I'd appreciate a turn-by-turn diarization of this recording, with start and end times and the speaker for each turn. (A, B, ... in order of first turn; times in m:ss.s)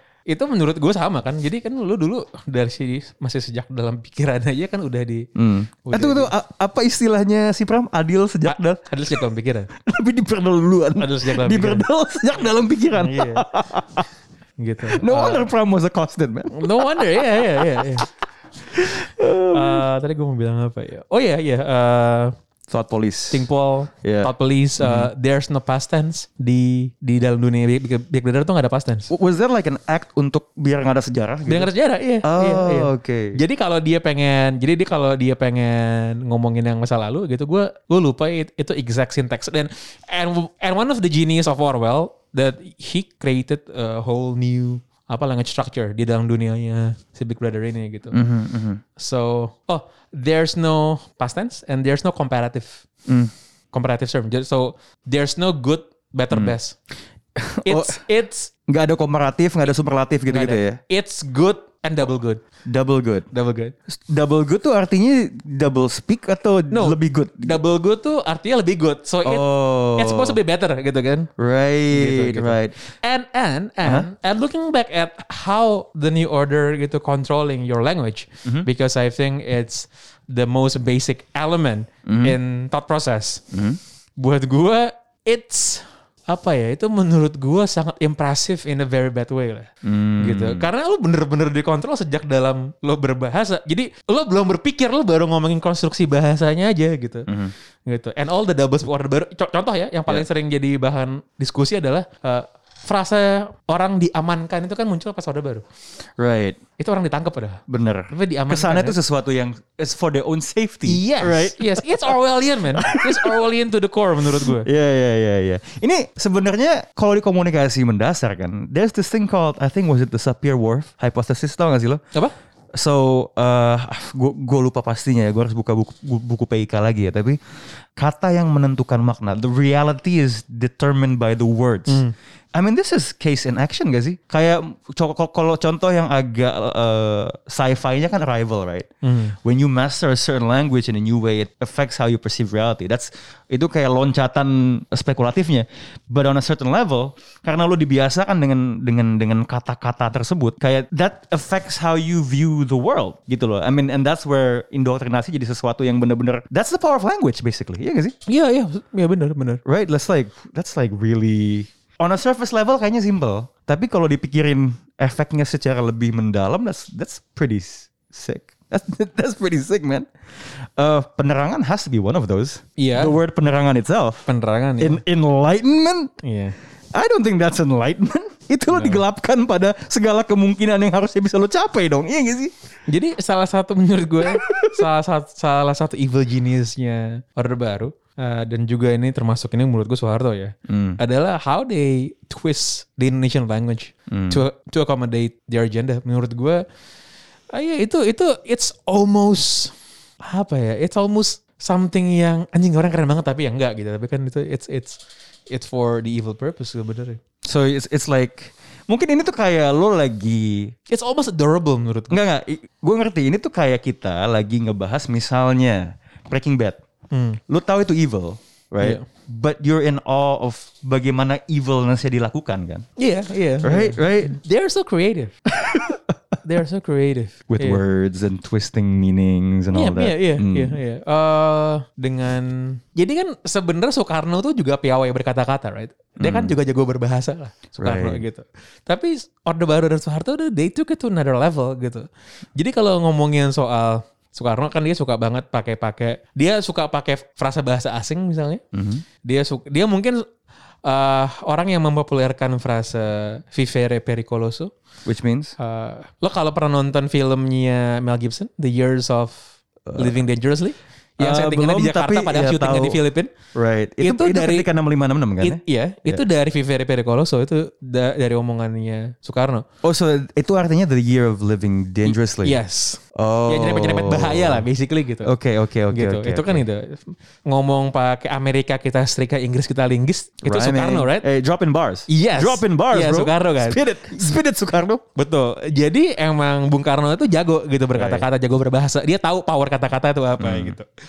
0:00.3-0:05.3 A
0:05.4-0:08.8 B
0:05.8-0:06.3 A
0:08.5-0:09.7 A
0:09.8-0:14.1 B
0:11.0-0:11.9 A
0:12.9-0:13.4 A
0:14.6-0:15.5 A
0:14.8-0:18.0 B
0:16.5-0:18.1 A
0:18.7-0:19.8 B
0:19.5-0:22.3 A
0:22.7-0:23.4 B
0:23.3-0:29.1 A
0:24.0-0:25.1 B
0:29.1-0:31.7 B
0:31.5-0:48.2 A
0:32.2-0:33.4 B
0:48.1-0:48.8 B
0:49.0-0:52.8 A
0:53.7-0:56.8 A
0:57.4-0:58.0 B
0:57.6-0:58.5 A
0:58.7-1:00.8 B
1:00.3-1:02.4 A
1:02.6-1:03.3 B
1:03.3-1:03.7 A
1:03.9-1:07.6 B
1:06.7-1:11.3 A
1:09.2-1:10.4 B
1:11.4-1:12.8 B
1:11.9-1:23.4 A
1:13.8-1:14.1 B
1:22.0-1:22.4 B
1:23.5-1:23.8 B
1:24.2-1:37.3 A
1:29.8-1:30.7 B
1:37.3-1:37.5 B
1:37.9-1:45.6 A
1:46.2-1:46.6 B
1:46.8-1:49.0 A
1:47.7-1:52.1 B
1:50.8-1:54.7 A
1:52.7-1:53.4 B
1:54.3-2:02.0 B
2:02.7-2:07.4 B
2:08.0-2:18.9 B
2:11.9-2:12.1 A
2:19.0-2:19.3 A
2:19.4-2:38.2 B
2:38.3-2:39.6 A
2:39.6-2:54.3 B
2:52.8-2:53.2 A
2:54.3-2:55.0 A
2:54.8-2:56.1 B
2:56.2-2:56.6 A
2:56.9-3:02.5 B
2:58.7-2:59.0 A
3:02.9-3:16.6 A
3:04.2-3:04.8 B
3:10.7-3:11.0 B
3:14.1-3:14.4 B
3:17.5-3:25.0 A
3:25.5-3:27.2 A
3:27.4-3:30.7 B
3:30.9-3:32.2 A
3:32.1-3:36.8 B
3:37.1-3:37.4 A
3:37.5-3:42.8 B
3:43.0-3:45.4 A
3:43.6-3:44.4 B
3:45.5-3:46.0 B
3:46.4-3:47.8 A
3:47.5-3:50.8 B
3:49.7-4:08.6 A
3:56.2-3:56.5 B
3:57.8-3:58.2 B
4:08.7-4:09.0 B
4:09.2-4:10.2 A
4:10.8-4:14.7 A
4:15.0-4:15.6 B
4:15.6-4:19.4 A
4:19.9-4:20.2 B
4:20.0-4:23.3 A
4:21.2-4:23.0 B
4:23.5-4:26.2 B
4:24.0-4:24.7 A
4:25.4-4:29.6 A
4:29.8-4:32.6 B
4:32.0-4:35.3 A
4:33.1-4:34.6 B
4:35.2-4:36.6 B
4:35.9-4:41.2 A
4:40.4-4:45.0 B
4:42.1-4:43.8 A
4:45.2-4:50.8 A
4:47.9-4:48.2 B
4:50.4-4:50.8 B